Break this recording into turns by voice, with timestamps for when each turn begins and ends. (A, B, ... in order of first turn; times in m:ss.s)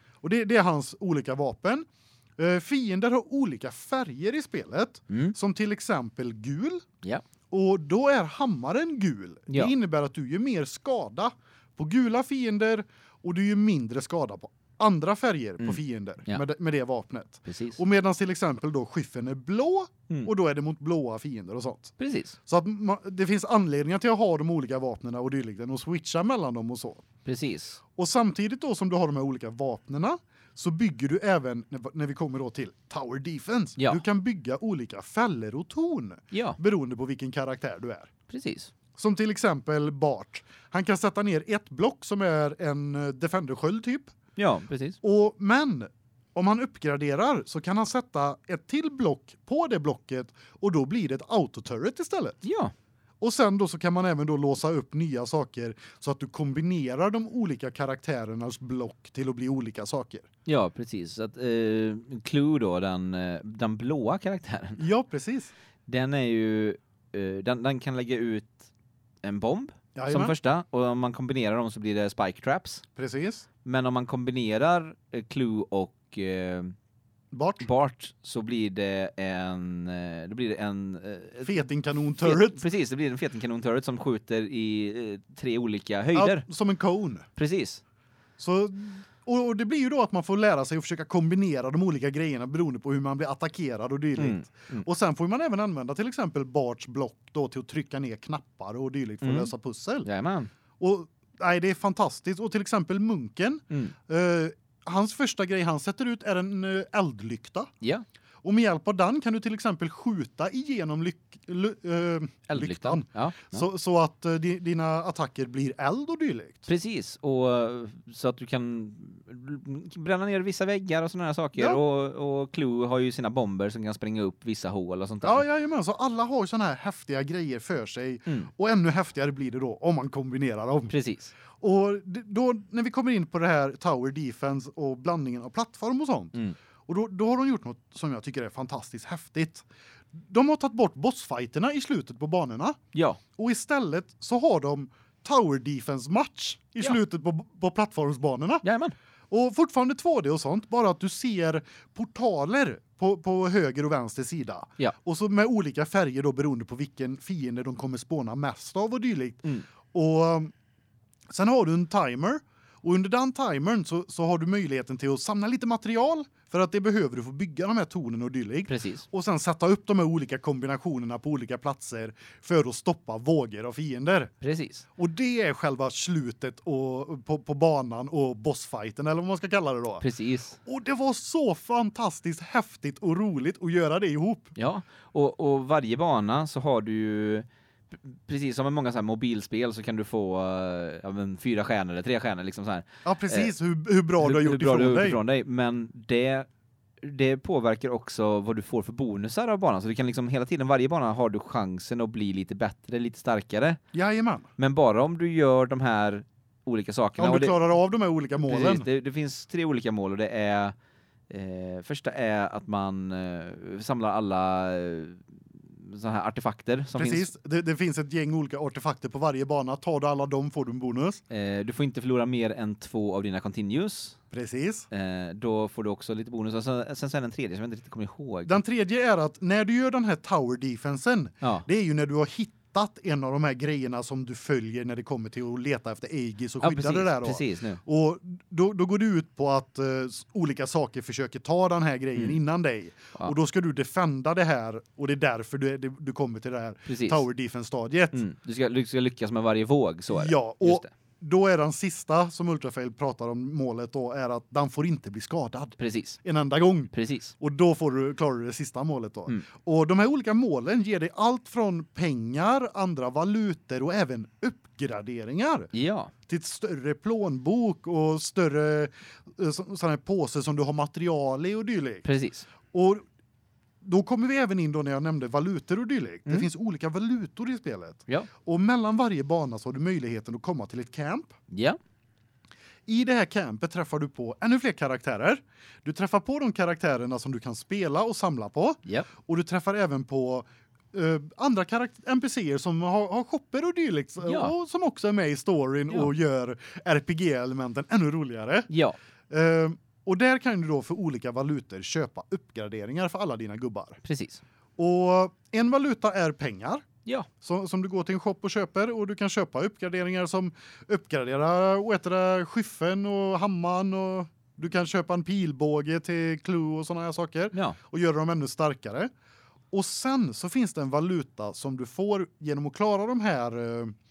0:00.2-0:01.8 A
0:02.4-0:06.8 A
0:05.1-0:05.3 B
0:07.5-0:21.9 A
0:15.6-0:16.4 B
0:17.4-0:17.8 B
0:22.0-0:22.4 B
0:22.5-0:27.0 A
0:27.2-0:27.8 B
0:28.0-0:38.1 A
0:36.3-0:36.6 B
0:38.3-0:38.7 B
0:39.0-0:44.1 A
0:44.4-0:45.0 B
0:45.0-0:52.4 A
0:52.4-0:52.7 B
0:53.2-1:00.3 A
1:00.4-1:04.8 B
1:04.8-1:05.5 A
1:05.9-1:08.7 B
1:09.2-1:12.8 B
1:09.9-1:10.3 A
1:13.0-1:13.4 A
1:13.6-1:16.7 B
1:17.3-1:17.7 A
1:17.6-1:21.6 B
1:21.4-1:22.6 A
1:22.2-1:26.4 B
1:26.1-1:27.2 A
1:27.4-1:27.8 B
1:28.4-1:40.1 A
1:34.2-1:34.8 B
1:39.2-1:39.5 B
1:40.0-1:40.5 B
1:40.8-1:47.7 A
1:43.7-1:43.9 B
1:48.4-1:56.7 A
1:52.5-1:53.6 B
1:56.7-2:05.4 B
2:05.2-2:10.9 A
2:10.9-2:11.3 B
2:11.6-2:16.3 A
2:16.9-2:22.8 A
2:22.9-2:23.2 B
2:23.4-2:28.6 A
2:28.6-2:28.9 B
2:29.3-2:40.5 A
2:41.3-2:54.3 A
2:48.7-2:49.0 B
2:54.4-2:54.8 B
2:55.0-3:00.0 A
3:00.0-3:00.6 B
3:00.6-3:04.5 A
3:04.6-3:13.5 B
3:13.0-3:15.2 A
3:14.2-3:16.5 B
3:17.0-3:23.8 B
3:23.9-3:24.5 A
3:24.6-3:27.6 B
3:27.2-3:28.8 A
3:28.4-3:30.7 B
3:31.3-3:37.3 B
3:37.0-3:41.2 A
3:41.3-3:44.2 B
3:44.3-3:44.9 A
3:44.9-3:48.6 B
3:48.4-4:08.2 A
3:56.6-3:57.8 B
4:06.8-4:07.2 B
4:08.1-4:10.9 B
4:10.1-4:25.7 A
4:15.8-4:16.2 B
4:16.9-4:17.3 B
4:25.7-4:26.1 B
4:26.3-4:32.0 A
4:32.0-4:32.4 B
4:32.7-4:33.0 A
4:33.8-4:41.3 A
4:41.5-4:41.8 B
4:42.9-4:58.7 A
4:54.2-4:54.5 B
4:58.7-4:59.0 B
4:59.3-5:04.0 A
5:04.0-5:04.4 B
5:04.8-5:06.8 A
5:07.4-5:19.1 A
5:17.5-5:17.8 B
5:19.7-5:23.9 A